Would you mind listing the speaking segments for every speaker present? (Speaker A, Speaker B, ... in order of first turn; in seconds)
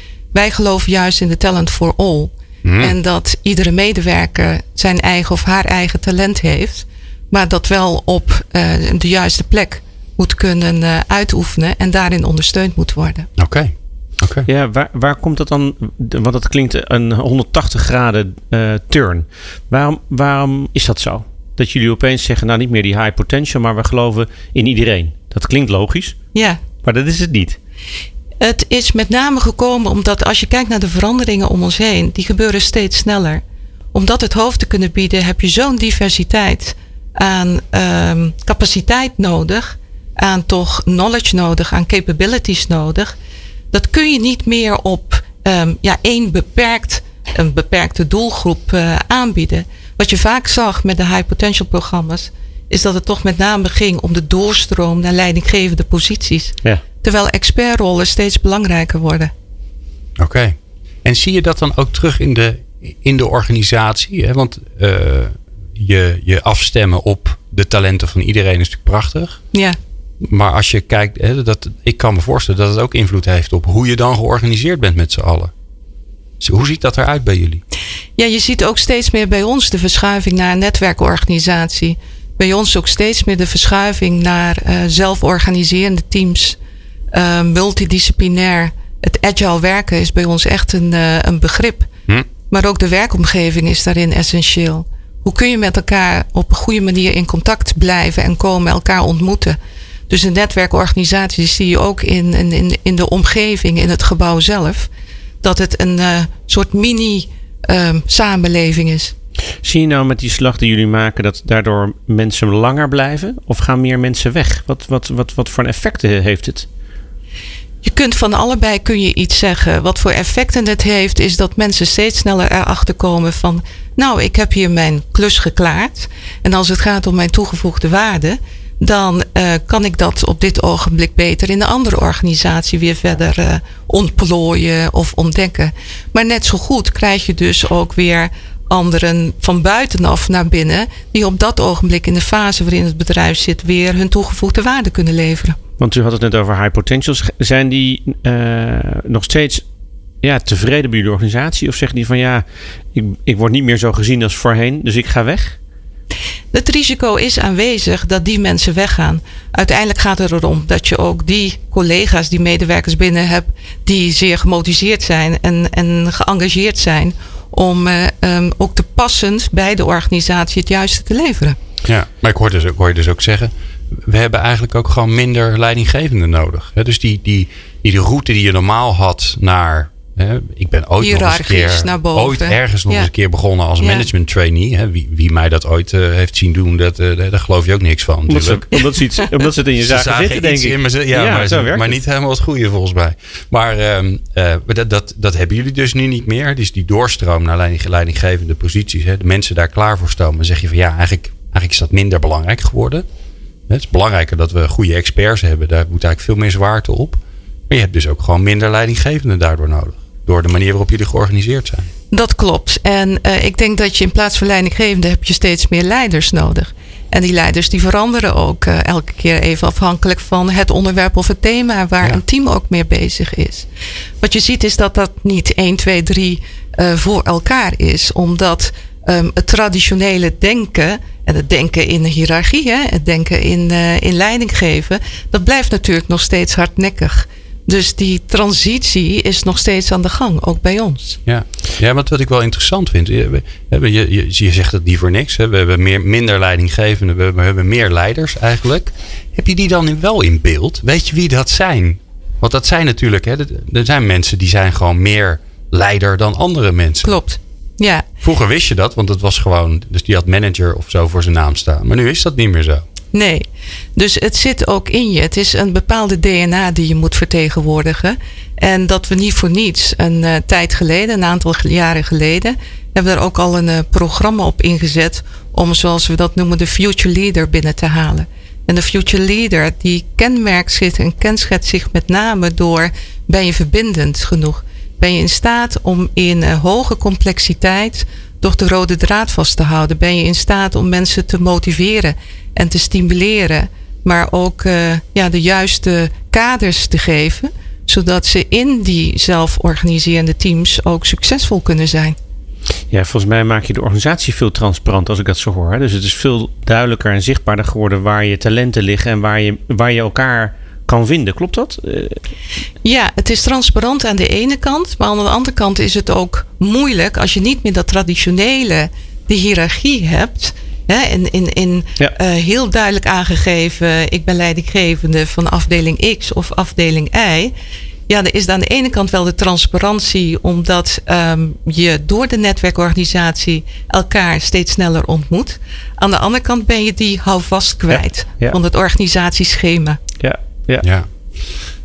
Speaker A: 0.3-13.3, 26.3-26.6, 28.4-33.4, 33.9-43.1, 43.7-59.3, 69.5-69.8, 78.2-86.6, 87.1-91.9, 92.5-99.6, 100.1-104.9, 105.4-109.1, 117.8-145.6, 156.5-171.6, 181.0-183.1, 183.8-184.1, 188.8-189.3, 212.1-223.7, 224.2-241.2, 257.0-258.1, 263.1-302.1, 312.8-327.5, 328.1-340.0
Speaker B: 2.6-3.0, 13.4-14.5, 60.2-69.4, 70.2-75.5, 76.4-77.6, 171.8-188.7, 189.8-203.1, 203.7-211.9, 241.2-257.1, 258.2-262.8, 340.8-341.1
Speaker C: 14.4-26.3, 26.8-27.6, 109.6-116.7, 145.8-149.7, 150.2-155.6, 188.3-191.9, 302.9-312.2, 340.2-340.9